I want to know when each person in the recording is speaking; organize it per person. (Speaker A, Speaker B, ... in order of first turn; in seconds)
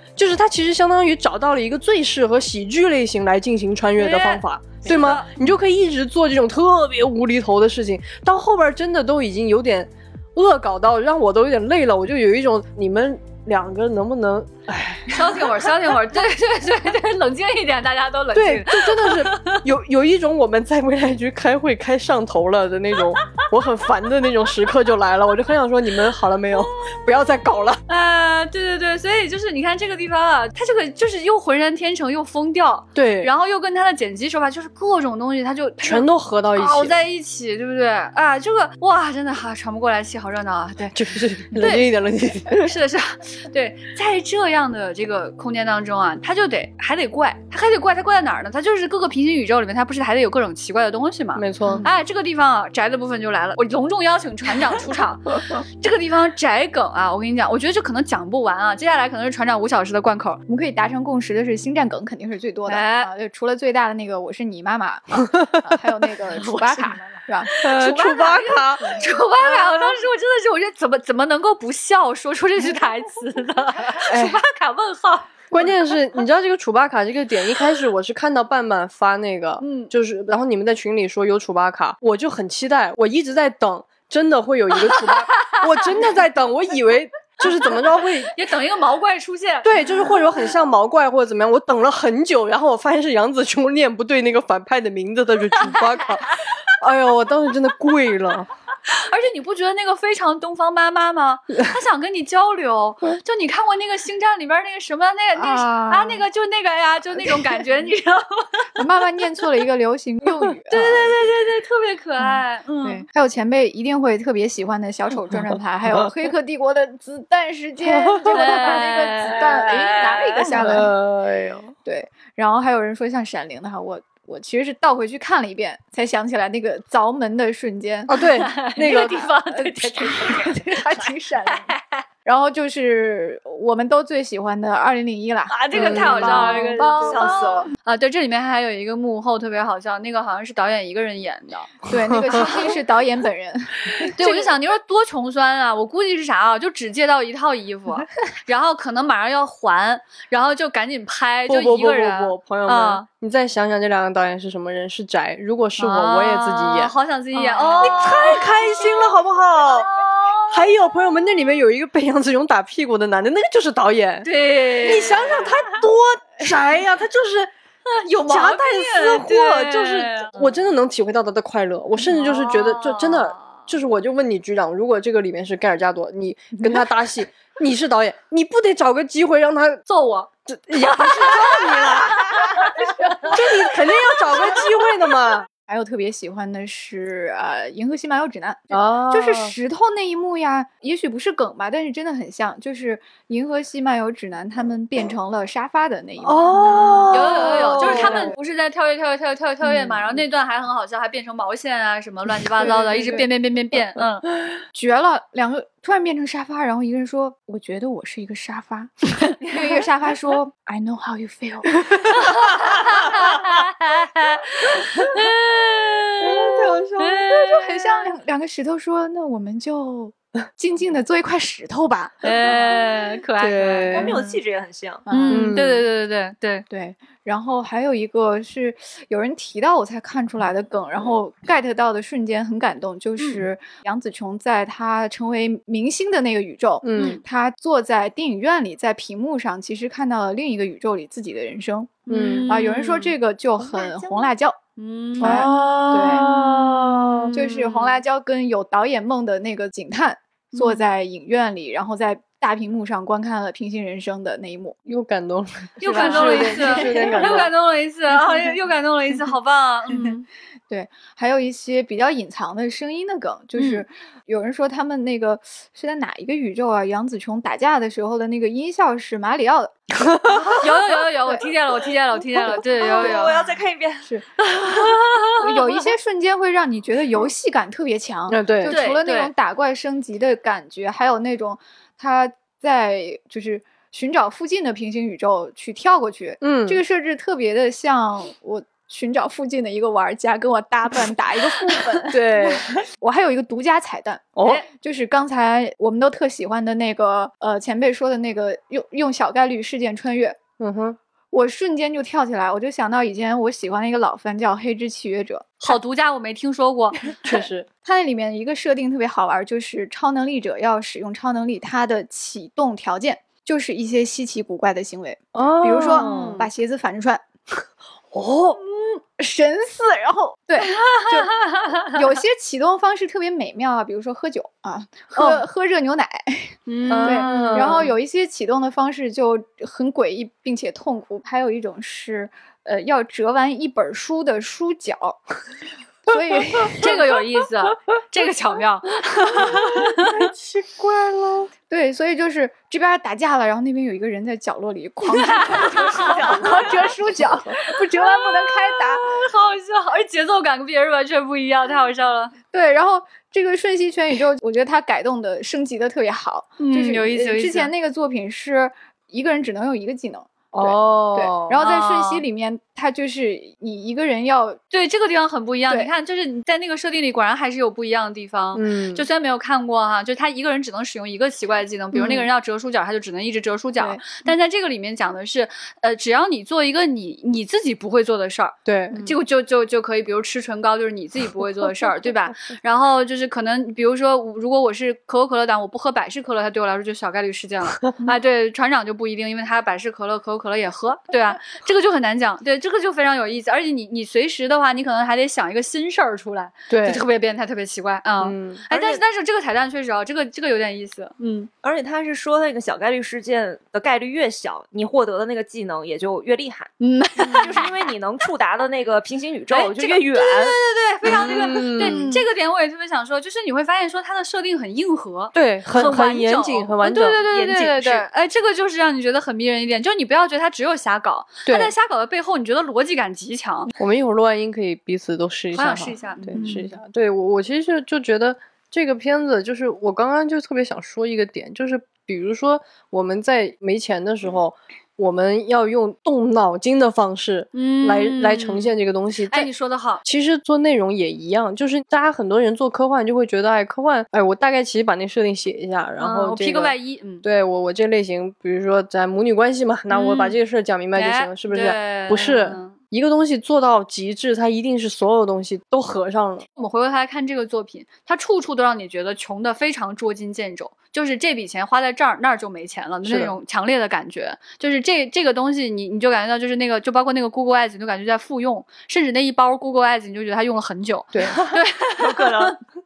Speaker A: 0.2-15.7, 18.4-27.8, 33.0-33.3, 35.8-37.0, 40.9-42.6, 51.4-51.9, 67.6-69.0, 74.0-74.4, 75.5-88.3, 89.6-98.5, 115.3-116.3, 117.8-118.5, 119.4-119.8, 120.5-121.7, 128.1-129.3, 135.7-136.4, 142.3-142.6, 151.5-156.9, 157.8-159.9, 160.4-167.5, 168.0-179.8, 180.5-182.6, 183.2-185.5, 188.7-189.6, 196.2-198.3, 202.6-203.2, 203.9-204.5, 216.2-217.2, 223.4-224.2, 225.3-225.9, 236.8-237.2, 242.1-242.5, 245.2-247.3, 254.9-257.5, 270.0-270.6, 278.3-278.8, 286.4-286.8, 292.1-292.7, 294.4-294.6, 300.6-301.0, 307.2-307.7, 315.3-316.4, 318.1-318.6, 325.1-325.4, 326.9-327.9, 339.1-341.5, 346.2-347.6, 360.5-361.6, 368.5-369.1, 371.9-372.3, 378.7-379.1, 396.7-397.1, 398.2-398.7, 411.1-412.1, 415.3-417.2, 421.5-421.7, 423.8-439.5, 440.0-456.4, 463.1-463.4, 471.1-471.4
Speaker B: 4.0-5.4, 15.1-19.6, 27.9-41.9, 42.5-60.4, 62.7-63.1, 66.3-75.7, 79.6-79.9, 84.8-85.9, 87.4-89.7, 95.7-96.5, 98.9-108.7, 110.7-113.1, 118.2-120.8, 128.3-132.1, 135.5-141.8, 142.3-142.7, 144.1-153.1, 155.8-159.1, 159.8-160.7, 164.2-165.8, 167.9-170.5, 172.1-173.7, 179.9-183.3, 196.5-204.3, 212.2-218.1, 222.2-224.2, 225.1-226.7, 242.1-243.1, 244.8-248.0, 250.5-250.8, 255.8-260.3, 263.6-263.8, 270.5-273.4, 274.4-275.8, 278.6-279.3, 305.6-307.4, 315.7-316.5, 320.6-321.9, 326.7-327.9, 336.8-340.3, 345.1-346.6, 347.6-352.3, 356.6-357.7, 361.6-362.2, 364.7-401.5, 406.8-407.7, 409.5-423.7, 425.5-426.7, 437.5-440.0, 446.0-447.2, 449.9-450.4, 450.9-452.8, 456.6-472.6
Speaker C: 60.5-67.5, 105.4-106.2, 108.8-111.1, 112.2-120.9, 121.8-128.3, 128.9-131.7, 132.2-137.7, 141.9-144.5, 157.4-157.8, 185.7-198.3, 199.7-200.1, 202.6-203.3, 204.7-213.4, 217.2-222.4, 224.0-224.2, 225.1-225.5, 226.7-244.6, 245.2-246.3, 247.3-254.8, 255.9-257.4, 260.7-270.6, 275.4-300.4, 301.3-305.7, 307.8-317.6, 318.6-335.2, 336.1-337.0, 341.7-349.2, 352.5-364.6, 373.8-374.2, 411.8-412.2
Speaker D: 136.4-137.7, 223.9-225.1, 243.6-244.3, 272.8-274.1, 346.0-346.9, 398.7-399.0, 401.6-406.7, 407.3-410.6, 417.3-418.1, 471.3-472.6